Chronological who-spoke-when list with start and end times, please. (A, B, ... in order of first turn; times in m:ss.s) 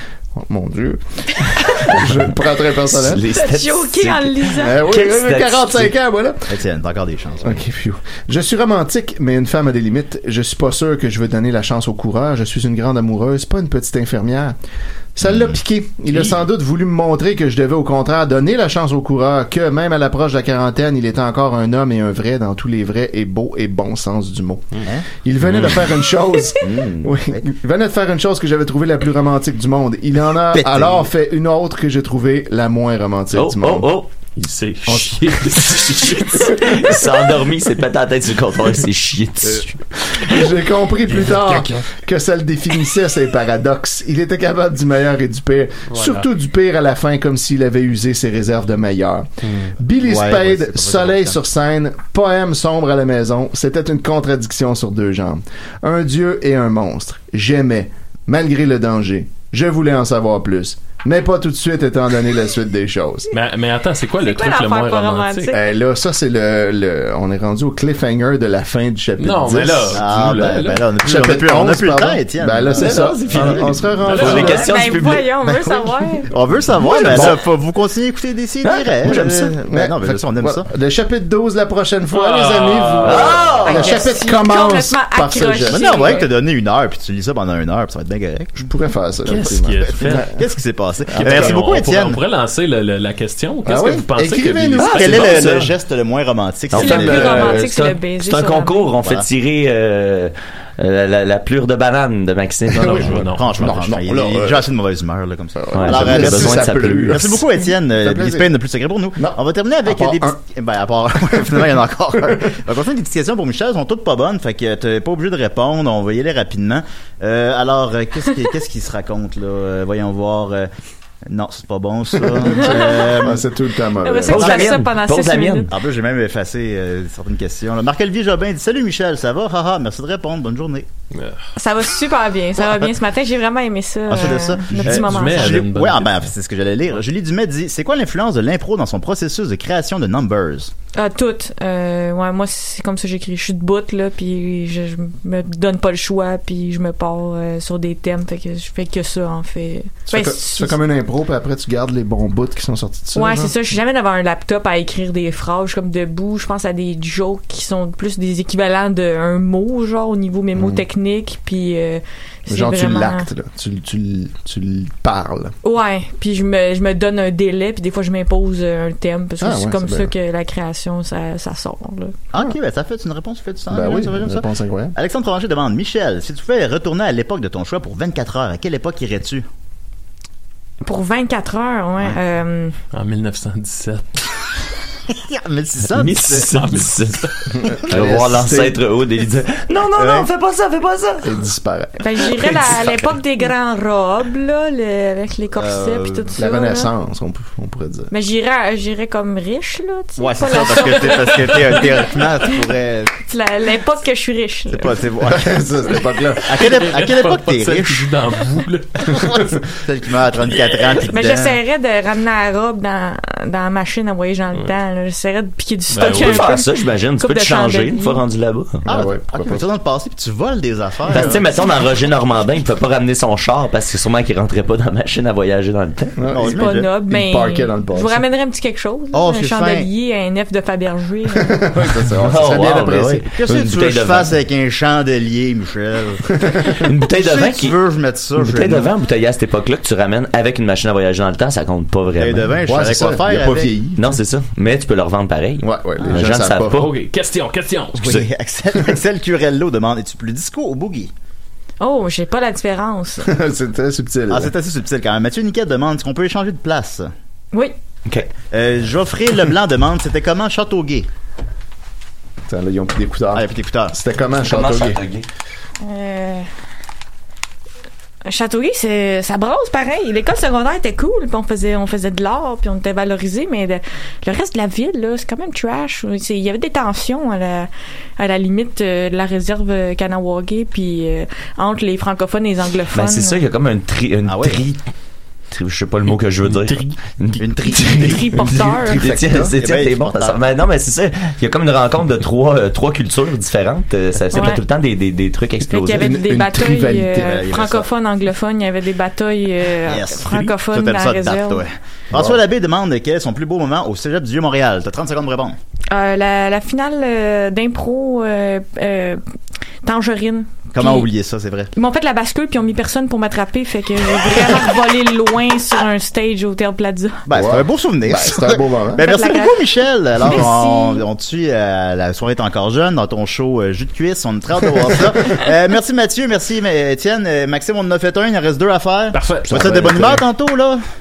0:00.4-0:03.2 A
0:02.9-0:05.9 B
0:03.3-0:04.8 C
0:04.6-0:06.4 A
0:06.5-0:07.6 D
0:07.4-0:14.6 A
0:15.2-0:33.9 A
0:15.3-0:15.5 D
0:25.5-0:25.9 E
0:26.6-0:27.1 B
0:30.4-0:31.1 D
0:33.3-0:34.1 B
0:34.4-0:36.6 E
0:34.9-0:37.0 A
0:35.8-0:40.4 B
0:40.1-1:03.3 A
0:41.1-0:41.9 E
0:45.9-0:46.3 E
0:49.4-0:49.7 E
0:50.0-0:51.4 D
1:03.3-1:05.6 E
1:04.2-1:05.6 C
1:05.5-1:10.1 A
1:09.2-1:10.9 E
1:09.9-1:13.5 D
1:11.0-1:14.7 A
1:12.7-1:15.3 B
1:14.0-1:14.7 E
1:14.3-1:16.3 C
1:15.4-1:16.3 A
1:16.3-1:20.7 D
1:16.8-1:17.4 B
1:17.0-1:17.4 A
1:18.6-1:19.5 B
1:19.0-1:26.1 A
1:22.1-1:23.7 E
1:23.0-1:24.0 B
1:23.6-1:26.3 C
1:25.7-1:28.7 D
1:28.6-1:30.3 A
1:29.2-1:30.3 E
1:29.9-1:32.2 D
1:31.1-1:35.3 E
1:31.1-1:31.6 A
1:33.6-1:35.4 A
1:34.8-1:35.7 B
1:34.8-1:37.7 D
1:36.7-1:43.2 B
1:36.8-1:38.9 C
1:37.0-1:37.5 A
1:39.0-1:39.3 D
1:42.7-1:44.7 A
1:42.8-1:43.8 E
1:43.2-2:00.7 D
1:45.6-1:48.5 A
1:45.7-1:47.3 B
1:49.2-1:50.4 A
1:51.3-1:51.7 A
2:01.3-2:03.5 D
2:02.3-2:04.6 A
2:02.6-2:03.1 C
2:04.0-2:05.8 C
2:04.3-2:05.7 B
2:05.7-2:10.9 D
2:11.1-2:11.4 E
2:11.6-2:15.7 C
2:12.6-2:12.9 D
2:14.1-2:20.7 D
2:14.7-2:16.2 E
2:21.0-2:30.8 C
2:30.1-2:33.6 A
2:33.2-2:43.3 C
2:40.6-2:40.8 A
2:42.5-2:45.5 A
2:45.6-2:52.2 C
2:49.4-2:50.1 A
2:52.3-2:59.4 D
2:53.7-2:54.9 A
3:00.8-3:02.8 C
3:02.9-3:04.2 E
3:05.1-3:06.5 D
3:05.9-3:07.3 B
3:06.5-3:07.5 E
3:07.6-3:08.8 A
3:07.9-3:08.3 D
3:07.9-3:11.3 B
3:09.9-3:10.3 D
3:11.2-3:12.8 A
3:12.0-3:16.9 C
3:15.6-3:16.3 D
3:16.4-3:18.1 A
3:18.1-3:21.8 C
3:20.2-3:23.1 D
3:21.2-3:21.8 E
3:23.3-3:25.0 C
3:24.7-3:25.7 D
3:25.3-3:26.6 A
3:26.5-3:28.1 D
3:26.5-3:29.4 E
3:29.6-3:31.6 D
3:30.6-3:31.0 E
3:31.1-3:38.2 C
3:35.9-3:36.6 E
3:36.0-3:38.8 B
3:38.9-3:39.7 A
3:38.9-3:41.4 D
3:41.1-3:46.2 B
3:46.2-3:48.2 A
3:46.3-3:46.7 D
3:46.5-3:51.6 C
3:49.1-3:49.9 D
3:51.4-3:53.2 A
3:52.2-3:54.3 B
3:53.3-3:58.9 D
3:56.4-3:56.7 A
3:56.8-3:57.8 B
3:58.4-4:02.6 B
4:02.2-4:03.8 D
4:02.7-4:04.2 A
4:04.0-4:06.9 B
4:05.6-4:06.9 A
4:06.0-4:06.3 D
4:06.8-4:08.1 E
4:08.0-4:11.1 D
4:11.8-4:13.3 C
4:13.2-4:14.5 A
4:14.3-4:17.1 D
4:18.5-4:21.1 D
4:22.5-4:25.0 A
4:23.3-4:24.0 D
4:24.4-4:25.3 B
4:25.8-4:26.5 C
4:28.3-4:43.4 C
4:42.9-4:44.8 B
4:44.3-4:44.6 D
4:45.5-4:56.1 B
4:46.5-4:47.0 E
4:47.4-4:48.2 D
4:47.7-4:49.1 C
4:48.4-4:49.6 A
4:49.6-4:50.4 D
4:54.3-4:54.6 C
4:55.7-5:01.6 C
4:55.9-4:57.4 A
4:57.2-4:57.9 D
4:59.8-5:05.6 D
5:02.1-5:02.4 A
5:05.9-5:09.2 C
5:09.8-5:11.1 C
5:10.7-5:11.7 D
5:11.7-5:17.3 C
5:17.3-5:30.8 D
5:17.3-5:19.1 A
5:19.0-5:21.0 C
5:29.1-5:30.2 E